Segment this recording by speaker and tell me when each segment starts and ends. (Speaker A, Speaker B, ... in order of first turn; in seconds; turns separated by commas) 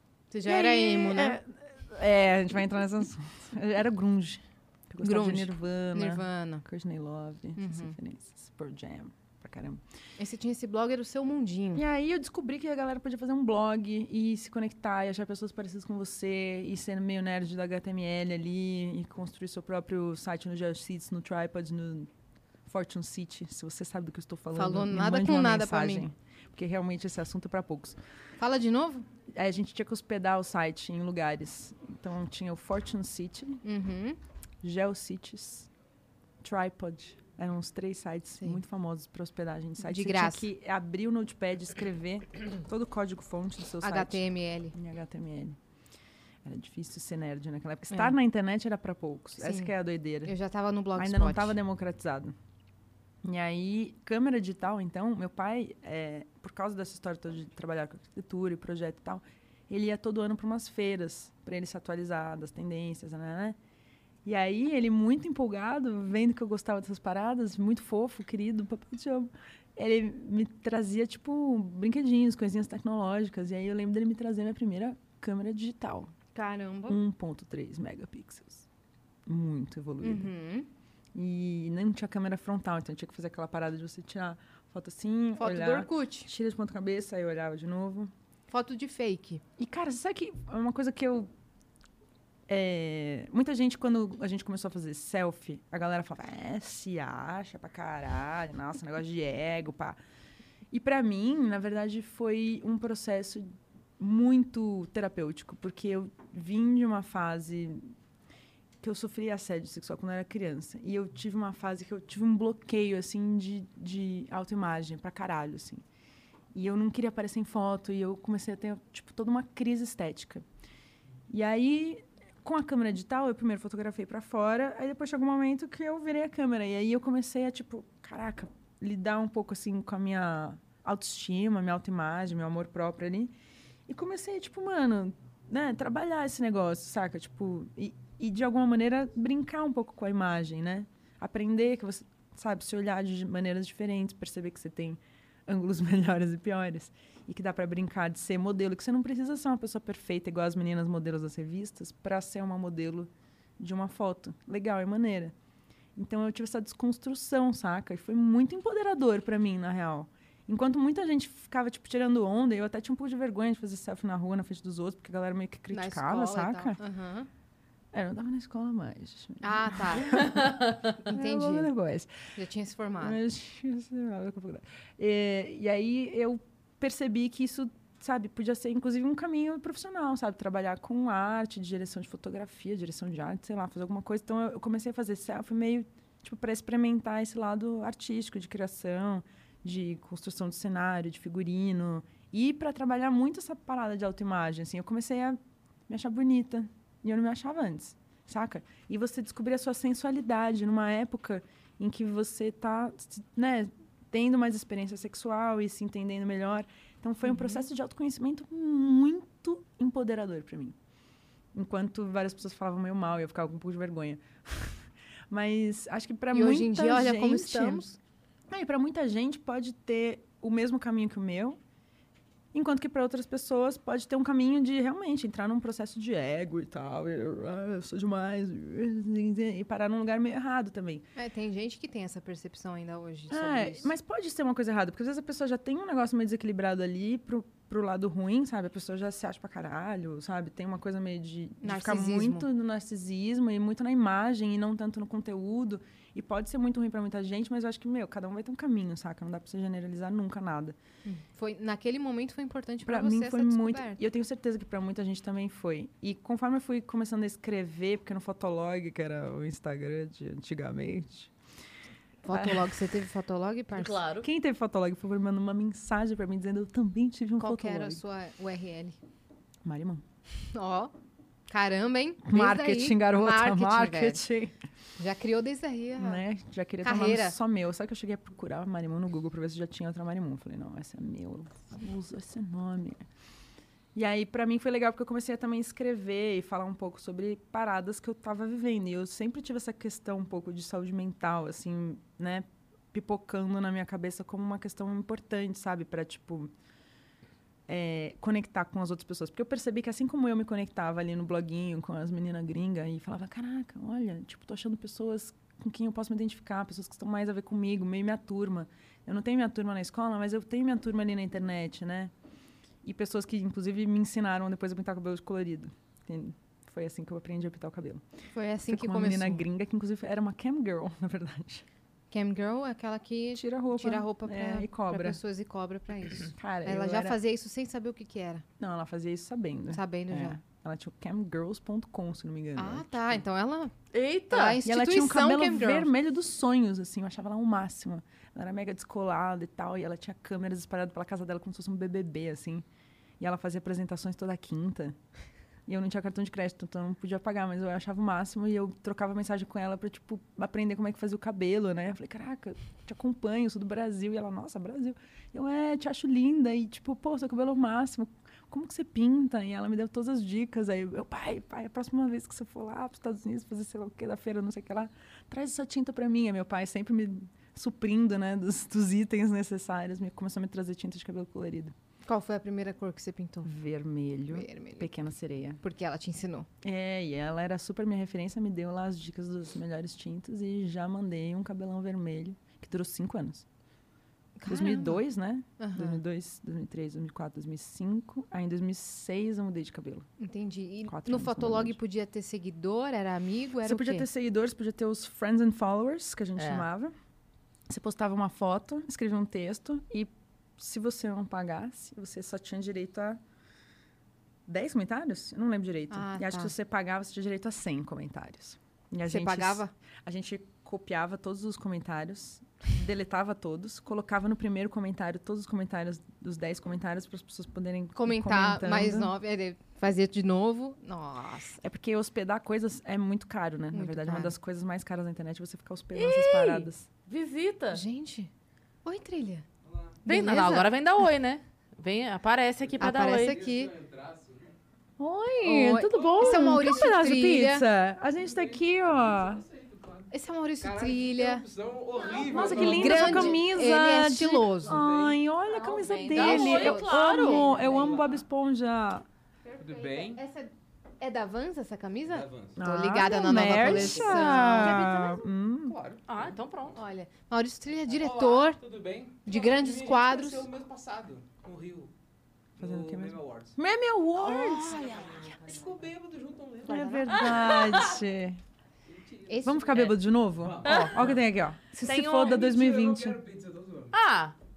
Speaker A: 0.3-1.4, Speaker B: 0.4-9.8, Speaker A: 5.0-6.6, Speaker A: 7.6-7.9, Speaker A: 10.2-11.8, Speaker B: 11.7-22.1, Speaker B: 22.6-28.0, Speaker A: 24.5-26.1, Speaker A: 28.4-29.1, Speaker B: 29.3-33.6, Speaker A: 33.6-34.2, Speaker B: 34.6-35.7, Speaker B: 36.4-44.2, Speaker A: 39.8-40.5, Speaker A: 43.8-44.7, Speaker B: 44.7-45.6, Speaker B: 46.4-50.3, Speaker A: 49.4-49.7, Speaker A: 50.2-51.6, Speaker B: 51.0-52.4, Speaker B: 53.2-63.6, Speaker B: 64.2-76.1, Speaker A: 76.3-77.0, Speaker B: 76.9-78.7, Speaker B: 79.2-80.3, Speaker A: 80.0-80.7, Speaker B: 81.1-88.1, Speaker A: 85.4-86.3, Speaker A: 88.5-89.4, Speaker B: 89.6-91.3, Speaker B: 92.5-100.0, Speaker B: 100.7-107.9, Speaker B: 108.8-115.8, Speaker B: 116.5-120.4, Speaker B: 121.3-133.3, Speaker B: 133.9-155.3, Speaker B: 155.9-166.8, Speaker A: 165.7-167.3, Speaker B: 167.9-172.1, Speaker A: 169.4-170.4, Speaker C: 170.4-170.9, Speaker A: 171.0-171.7, Speaker A: 172.3-173.2, Speaker B: 173.0-210.8, Speaker A: 207.2-207.6, Speaker B: 211.5-217.8, Speaker A: 216.3-218.0, Speaker B: 218.5-221.6, Speaker B: 222.5-231.0, Speaker A: 231.2-233.9, Speaker B: 233.3-250.8, Speaker A: 241.6-242.4, Speaker A: 251.0-254.0, Speaker B: 252.8-261.3, Speaker A: 262.2-264.0, Speaker B: 262.3-262.8, Speaker C: 263.7-264.3, Speaker B: 264.2-268.0, Speaker A: 267.4-269.0, Speaker B: 269.6-270.0, Speaker A: 270.5-270.9, Speaker A: 271.5-274.2, Speaker B: 272.2-274.5, Speaker A: 275.0-276.2, Speaker B: 276.0-283.0, Speaker A: 276.8-277.3, Speaker B: 283.9-296.5, Speaker B: 297.7-312.1, Speaker B: 312.8-318.0, Speaker A: 318.3-319.4, Speaker B: 318.7-321.6, Speaker A: 322.1-328.4, Speaker B: 323.4-325.2, Speaker B: 326.3-327.2, Speaker B: 328.6-333.2, Speaker A: 329.7-330.4, Speaker A: 332.6-333.7, Speaker C: 333.9-334.6, Speaker A: 334.3-335.9, Speaker B: 334.6-342.6, Speaker B: 343.2-345.0, Speaker B: 345.7-371.7, Speaker A: 372.0-373.5, Speaker B: 373.4-375.6, Speaker A: 374.3-374.9, Speaker A: 375.6-376.5, Speaker B: 376.6-383.4, Speaker A: 384.4-385.0, Speaker B: 384.5-390.1, Speaker A: 385.6-386.0, Speaker A: 390.2-394.1, Speaker B: 390.9-391.8, Speaker B: 393.6-396.9, Speaker C: 396.4-396.6, Speaker B: 397.7-403.2, Speaker B: 404.5-419.1, Speaker A: 405.9-406.5, Speaker A: 409.0-409.7, Speaker A: 418.0-421.6, Speaker B: 421.6-426.9, Speaker A: 423.7-424.3, Speaker C: 425.9-427.8, Speaker A: 427.7-428.3, Speaker A: 428.8-429.4, Speaker D: 429.6-430.0, Speaker A: 430.0-430.7, Speaker C: 430.1-433.4, Speaker D: 432.6-434.5, Speaker A: 432.8-433.7, Speaker B: 435.0-439.4, Speaker A: 435.4-437.6, Speaker D: 435.9-436.9, Speaker D: 438.1-443.4, Speaker A: 440.1-441.4, Speaker A: 441.9-444.8, Speaker B: 442.2-449.0, Speaker D: 444.6-445.2, Speaker C: 445.5-447.6, Speaker A: 446.1-448.0, Speaker D: 447.6-448.2, Speaker A: 449.4-454.9, Speaker D: 449.6-450.2, Speaker D: 452.1-452.6, Speaker B: 452.6-455.8, Speaker D: 453.5-456.4, Speaker C: 453.9-455.2, Speaker C: 456.1-456.8, Speaker A: 456.8-458.6, Speaker D: 457.9-461.9, Speaker A: 459.2-460.5, Speaker D: 462.6-463.6, Speaker B: 462.6-464.8, Speaker A: 464.4-465.2, Speaker D: 464.5-467.8, Speaker B: 466.7-468.4, Speaker A: 466.7-467.2, Speaker C: 467.4-467.9, Speaker D: 468.9-471.2, Speaker A: 469.3-469.9, Speaker B: 469.4-473.2, Speaker C: 470.6-470.9, Speaker C: 471.8-472.4, Speaker D: 472.1-473.9, Speaker C: 473.9-474.3